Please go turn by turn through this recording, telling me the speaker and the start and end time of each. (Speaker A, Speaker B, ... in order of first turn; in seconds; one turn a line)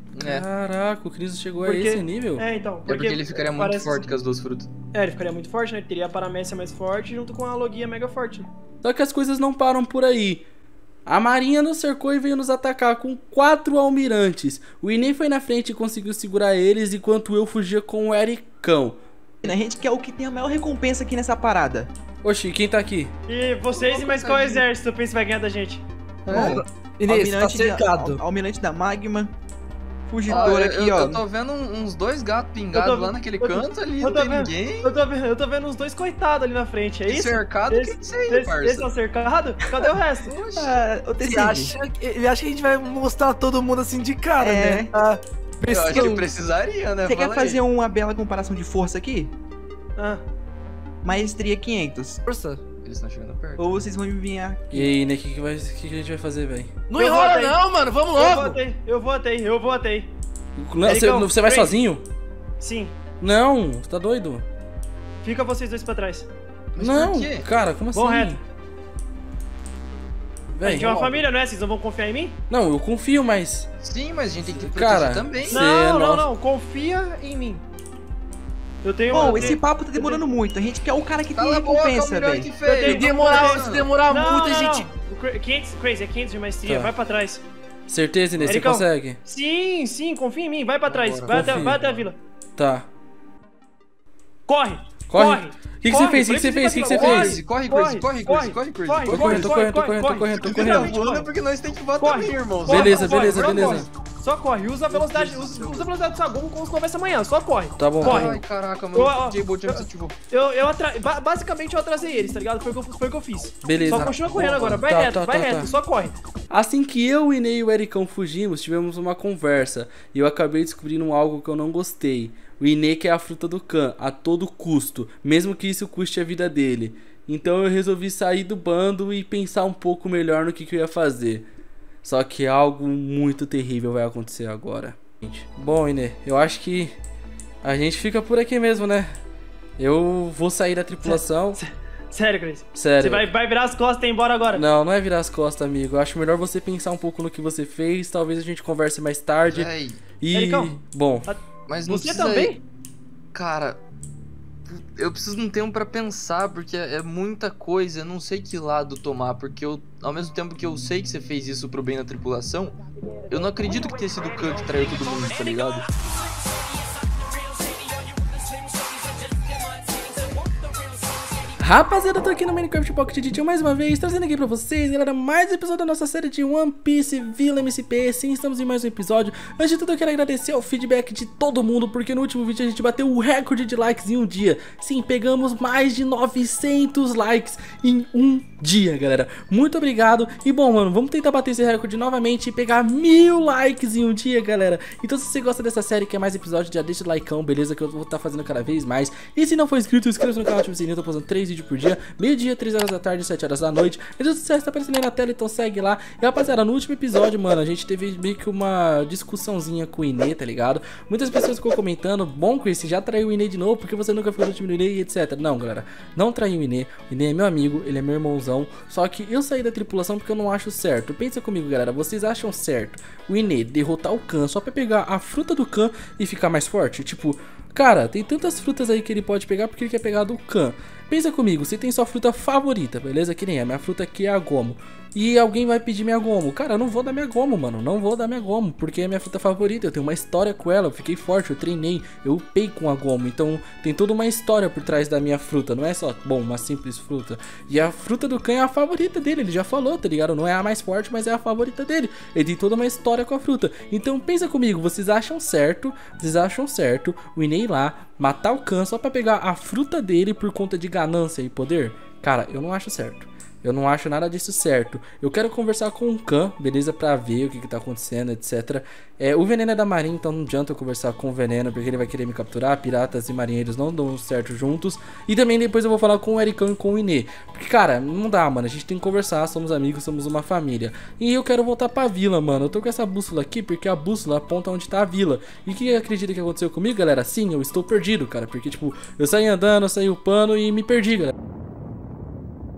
Speaker A: 0.1-0.4
Speaker B: 0.2-2.4
Speaker C: 1.6-4.0
Speaker A: 2.9-4.7
Speaker C: 4.9-8.5
Speaker B: 8.8-10.5
Speaker B: 11.1-19.0
Speaker D: 19.4-21.9
Speaker B: 22.2-23.1
Speaker C: 23.3-25.8
Speaker A: 23.7-24.6
Speaker D: 26.3-29.3
Speaker A: 26.3-26.6
Speaker E: 26.4-28.1
Speaker D: 30.1-31.2
Speaker A: 30.3-34.9
Speaker C: 32.7-40.3
Speaker A: 37.1-38.9
Speaker A: 40.2-40.8
Speaker D: 40.5-41.7
Speaker E: 41.3-46.2
Speaker D: 44.4-44.9
Speaker A: 45.6-47.6
Speaker D: 47.0-49.3
Speaker C: 50.0-50.2
Speaker D: 51.0-52.2
Speaker E: 52.3-52.6
Speaker A: 52.8-53.7
Speaker D: 53.6-54.9
Speaker B: 54.7-56.7
Speaker E: 56.9-58.5
Speaker C: 57.0-57.6
Speaker C: 58.1-60.1
Speaker B: 60.6-62.0
Speaker C: 60.8-61.8
Speaker C: 62.6-63.0
Speaker B: 63.2-64.4
Speaker C: 65.2-66.3
Speaker A: 66.7-67.5
Speaker B: 66.8-68.4
Speaker C: 67.9-68.4
Speaker B: 70.5-70.9
Speaker C: 70.6-72.3
Speaker A: 70.7-71.1
Speaker B: 72.5-73.7
Speaker A: 73.8-75.7
Speaker B: 74.4-76.3
Speaker C: 75.5-77.6
Speaker C: 78.8-80.2
Speaker A: 79.1-79.5
Speaker D: 79.1-82.5
Speaker A: 81.3-84.0
Speaker C: 82.6-87.4
Speaker E: 82.9-84.8
Speaker B: 86.7-86.9
Speaker B: 87.9-89.2
Speaker C: 88.5-92.2
Speaker A: 90.8-92.0
Speaker B: 91.3-91.8
Speaker B: 92.5-92.9
Speaker C: 94.5-101.3
Speaker B: 95.1-97.4
Speaker A: 96.8-99.6
Speaker B: 99.1-101.0
Speaker A: 100.3-103.8
Speaker C: 102.0-108.4
Speaker B: 102.7-103.9
Speaker A: 104.9-105.9
Speaker B: 107.8-108.4
Speaker A: 108.0-110.2
Speaker C: 108.9-116.1
Speaker B: 113.6-115.7
Speaker A: 113.9-114.4
Speaker B: 116.5-131.4
Speaker B: 132.0-136.9
Speaker B: 137.6-139.1
Speaker B: 139.8-141.6
Speaker C: 141.1-144.6
Speaker B: 142.7-143.3
Speaker B: 144.5-151.3
Speaker A: 149.4-150.0
Speaker C: 150.3-152.6
Speaker A: 151.7-152.6
Speaker A: 153.3-153.8
Speaker A: 154.7-162.8
Speaker A: 163.3-165.9
Speaker E: 167.0-171.3
Speaker B: 171.6-291.3